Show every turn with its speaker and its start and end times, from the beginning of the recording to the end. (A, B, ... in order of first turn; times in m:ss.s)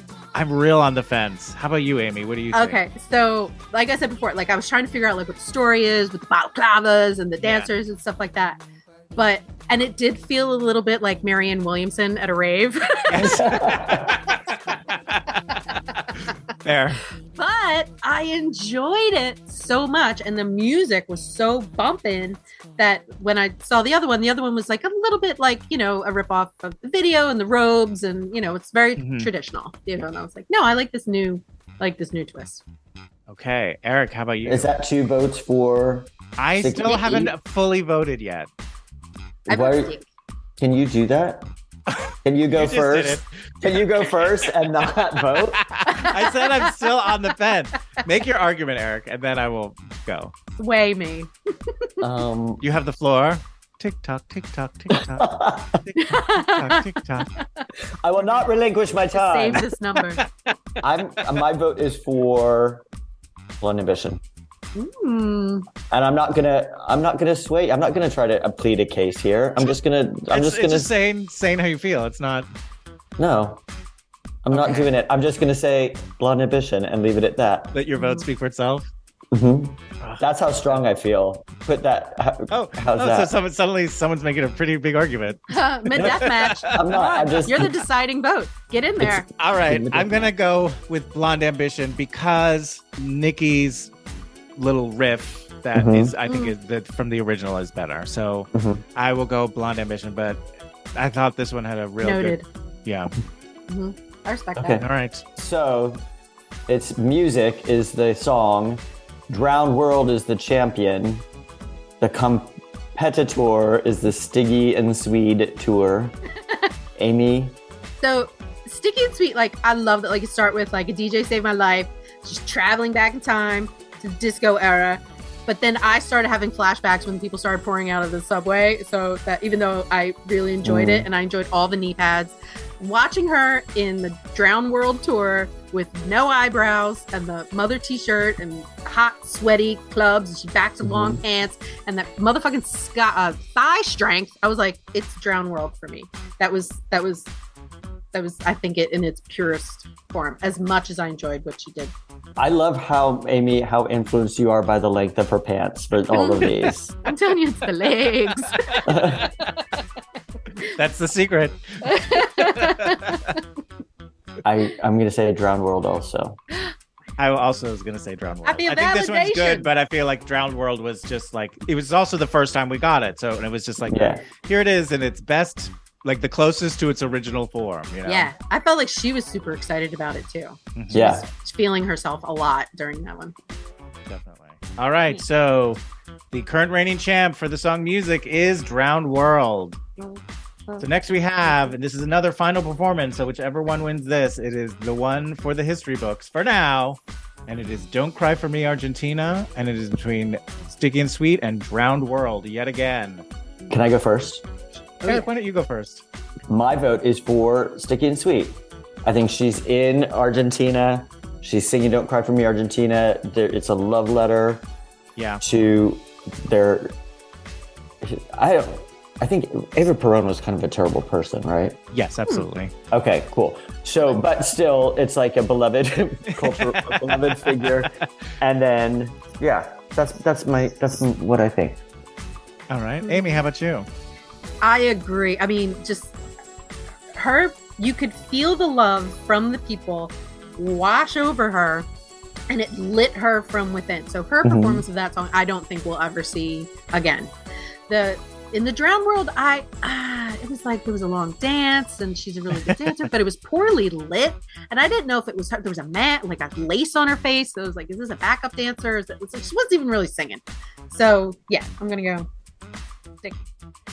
0:00.3-0:02.8 A
0:02.5-0:08.6 B
0:07.4-0:07.7 A
0:09.2-0:13.8 B
0:13.1-0:14.4 A
0:13.2-0:14.2 C
0:14.9-0:15.2 A
0:16.6-0:17.0 A
0:17.4-0:32.6 B
0:29.0-0:29.3 A
0:33.3-0:34.7 A
0:34.4-0:37.3 C
0:36.4-0:38.5 A
0:39.5-0:40.0 C
0:39.5-0:40.0 B
0:40.6-0:41.5 C
0:41.9-0:44.5 A
0:42.2-0:45.6 C
0:45.4-0:50.3 A
0:45.9-0:46.7 B
0:50.6-0:51.9 B
0:52.0-0:52.6 C
0:52.6-0:57.3 A
0:54.9-0:55.8 C
0:56.0-0:56.8 B
0:57.4-0:57.6 B
0:58.0-0:59.7 C
0:59.1-1:00.2 B
1:00.8-1:02.8 C
1:03.6-1:04.2 C
1:04.8-1:05.7 B
1:05.9-1:10.9 C
1:10.3-1:12.5 A
1:13.2-1:13.6 C
1:14.4-1:17.7 C
1:14.5-1:14.9 A
1:17.7-1:18.9 A
1:18.0-1:18.3 B
1:19.3-1:23.3 C
1:20.0-1:20.8 A
1:22.5-1:27.2 A
1:25.5-1:29.3 B
1:26.0-1:27.7 C
1:29.0-1:30.3 C
1:29.4-1:33.9 A
1:34.6-1:40.4 A
1:35.7-1:36.1 C
1:36.3-1:36.5 B
1:38.5-1:38.8 C
1:41.0-1:43.1 A
1:42.0-1:42.5 B
1:43.7-1:44.8 B
1:44.6-1:46.0 C
1:44.8-1:45.2 A
1:46.7-1:51.2 C
1:52.0-1:56.2 C
1:57.0-1:57.6 C
1:58.0-2:27.3 B
2:10.6-2:11.1 C
2:20.8-2:21.2 C
2:28.1-2:31.9 B
2:32.4-2:37.0 C
2:36.1-2:38.9 B
2:38.5-2:39.3 A
2:38.8-2:39.3 C
2:40.6-2:43.2 A
2:41.8-2:43.4 B
2:44.4-2:46.4 C
2:47.2-2:58.3 A
2:48.5-2:49.7 B
2:53.9-2:54.2 C
2:58.1-3:03.3 B
3:00.8-3:01.1 A
3:00.9-3:01.2 C
3:04.1-3:05.8 A
3:06.3-3:09.8 A
3:10.0-3:10.9 B
3:10.8-3:23.2 A
3:11.5-3:11.7 B
3:23.7-3:24.4 C
3:25.0-3:26.0 A
3:26.5-3:34.7 C
3:35.2-3:35.4 A
3:35.4-3:37.0 C
3:38.0-3:41.8 C
3:41.9-3:42.7 A
3:42.9-3:51.8 C
3:46.3-3:47.9 A
3:52.7-3:53.9 A
3:53.0-3:53.4 B
3:54.6-3:56.2 B
3:57.2-4:01.9 B
4:02.5-4:07.3 B
4:04.4-4:04.8 C
4:07.9-4:22.3 B
4:12.6-4:13.0 A